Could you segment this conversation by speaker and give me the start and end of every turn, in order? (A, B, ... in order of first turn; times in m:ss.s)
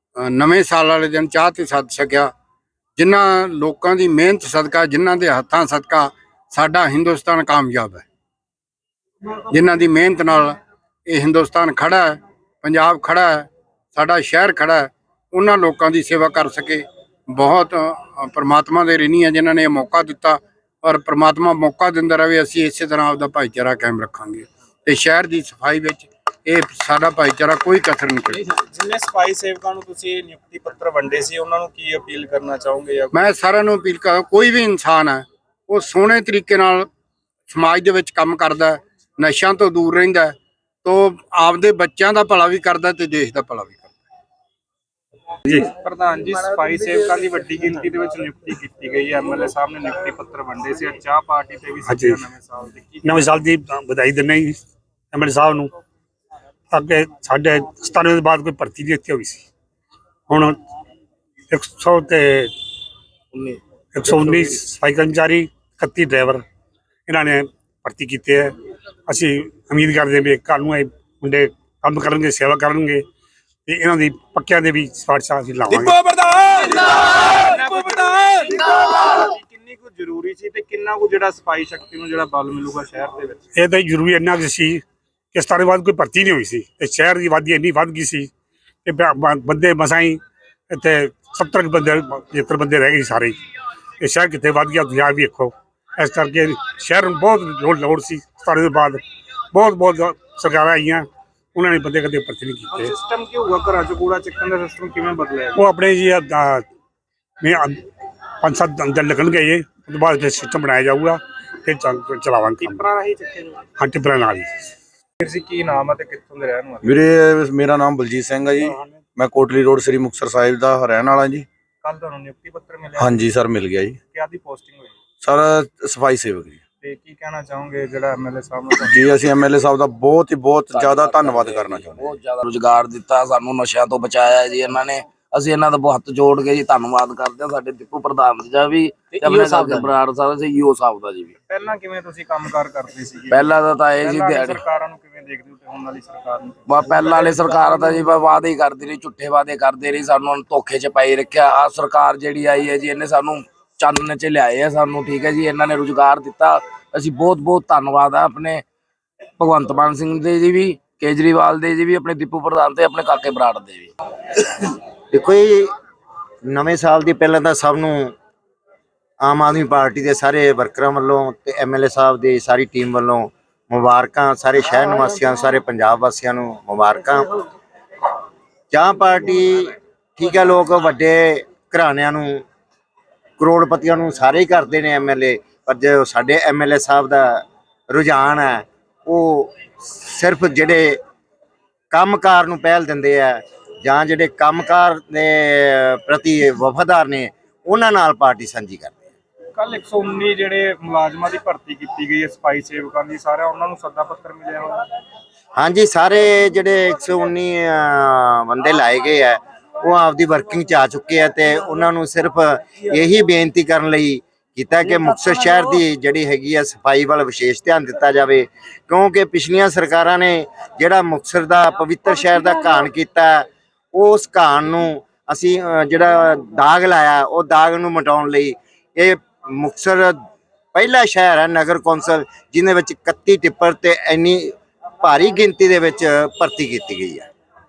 0:00.2-0:02.3 A
0:03.0-0:08.0 A
0:09.4-0:28.4 A
0:28.4-0:33.2 B
0:33.1-0:36.9 A
0:37.5-0:44.0 A
0:45.5-0:45.7 C
0:45.7-0:53.4 B
0:51.9-0:52.2 C
0:53.0-0:54.6 C
0:55.1-0:55.7 C
0:56.7-0:59.4 C
1:00.3-1:00.6 C
1:01.5-1:02.5 C
1:04.0-1:06.4 C
1:04.1-1:04.6 D
1:07.1-1:08.5 C
1:09.1-1:13.0 C
1:13.7-1:16.0 C
1:15.8-1:17.0 E
1:16.4-1:23.4 B
1:23.6-1:24.8 C
1:25.3-1:28.3 C
1:28.8-1:30.2 C
1:30.7-1:33.4 C
1:34.0-1:39.0 C
1:39.5-1:42.9 C
1:42.7-1:45.6 B
1:45.6-1:46.6 C
1:47.4-1:47.8 C
1:48.4-1:52.8 C
1:52.6-1:53.6 B
1:53.8-1:54.5 C
1:55.2-1:57.0 B
1:56.8-2:01.5 E
2:01.8-2:03.3 B
2:03.0-2:04.0 E
2:04.1-2:05.0 B
2:05.2-2:06.6 E
2:06.8-2:09.0 B
2:08.8-2:12.2 E
2:10.7-2:21.4 D
2:21.5-2:27.7 B
2:23.3-2:24.6 D
2:26.7-2:38.6 D
2:39.4-2:43.9 D
2:45.1-2:45.7 F
2:46.5-2:48.1 F
2:49.2-2:57.3 F
2:58.7-3:02.4 F
3:03.4-3:11.0 F
3:11.9-3:19.0 F
3:19.6-3:24.8 B
3:25.6-3:50.2 F
3:50.7-3:57.3 F